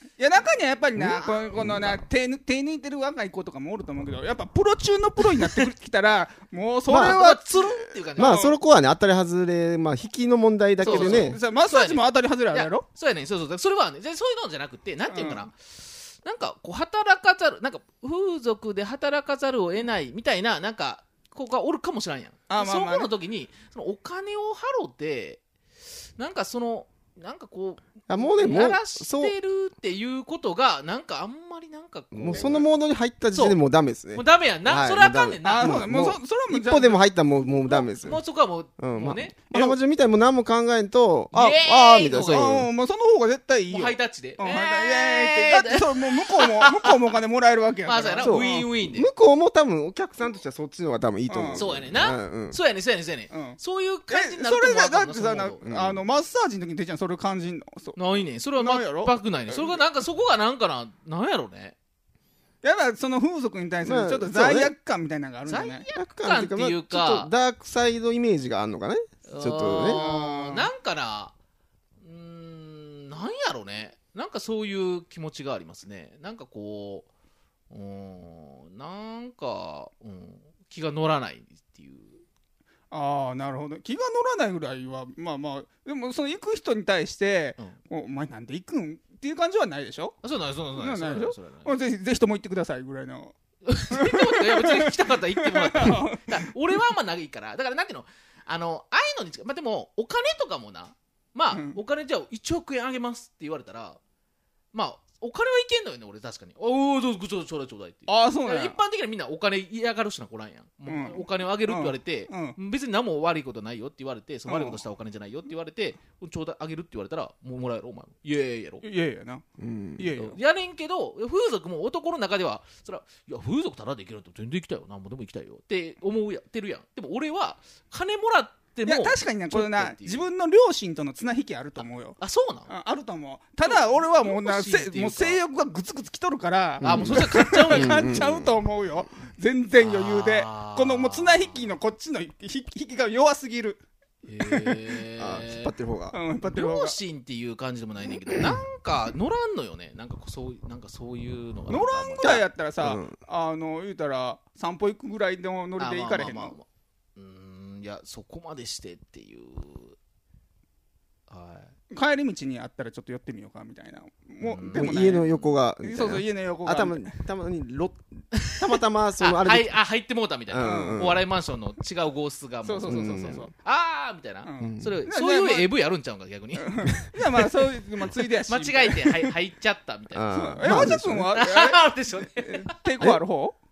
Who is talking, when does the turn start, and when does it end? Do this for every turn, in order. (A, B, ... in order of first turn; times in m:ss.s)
0:00.2-0:08.6 A
0:01.0-0:02.0 B
0:06.9-0:07.2 B
0:06.9-0:08.4 C
0:08.2-0:11.4 B
0:10.8-0:12.9 A
0:10.8-0:25.4 C
0:15.1-0:15.5 A
0:22.5-0:23.1 A
0:26.2-0:32.7 C
0:28.1-0:29.4 B
0:32.1-0:38.2 B
0:33.3-0:33.6 C
0:34.1-0:35.9 C
0:35.4-0:37.0 A
0:37.6-0:39.8 C
0:38.8-0:42.7 B
0:41.3-0:42.6 C
0:42.3-0:48.7 A
0:43.7-0:47.2 C
0:47.8-0:49.1 C
0:48.2-0:52.6 B
0:51.3-0:51.6 A
0:51.5-0:55.6 C
0:53.3-0:59.8 A
0:55.6-0:56.0 B
0:58.0-1:01.8 C
1:02.6-1:05.9 A
1:03.8-1:04.7 B
1:05.4-1:07.3 C
1:06.0-1:10.0 B
1:09.3-1:11.4 C
1:09.9-1:10.7 A
1:12.0-1:17.1 C
1:17.7-1:22.2 C
1:22.9-1:30.2 A
1:30.2-1:31.7 C
1:30.7-1:33.4 A
1:33.7-1:44.0 C
1:33.9-1:36.5 A
1:41.5-1:41.8 A
1:44.7-1:58.8 C
1:48.1-1:48.8 A
1:50.9-1:52.6 A
1:54.5-1:54.8 A
1:58.8-1:59.4 A
1:59.6-2:00.1 B
2:00.0-2:00.4 A
2:00.2-2:10.2 C
2:08.9-2:23.8 A
2:11.8-2:12.7 C
2:13.6-2:15.4 C
2:16.8-2:18.6 B
2:16.8-2:18.1 C
2:19.8-2:21.6 C
2:24.2-2:25.7 C
2:24.5-2:24.7 A
2:25.2-2:26.2 B
2:26.1-2:27.0 A
2:26.5-2:32.4 C
2:28.3-2:28.6 B
2:31.7-2:36.6 A
2:32.2-2:33.2 B
2:35.8-2:36.6 C
2:37.2-2:40.0 C
2:41.3-2:41.7 C
2:41.9-2:45.3 A
2:44.4-2:45.6 C
2:44.7-2:49.7 B
2:45.8-2:47.2 A
2:48.7-2:56.9 C
2:50.5-2:51.2 B
2:50.6-2:51.0 A
2:52.6-2:53.5 A
2:52.9-2:53.5 B
2:54.4-2:55.7 A
2:54.6-2:55.0 B
2:56.6-2:59.4 A
2:58.4-3:02.8 C
3:00.1-3:01.3 B
3:00.3-3:03.6 A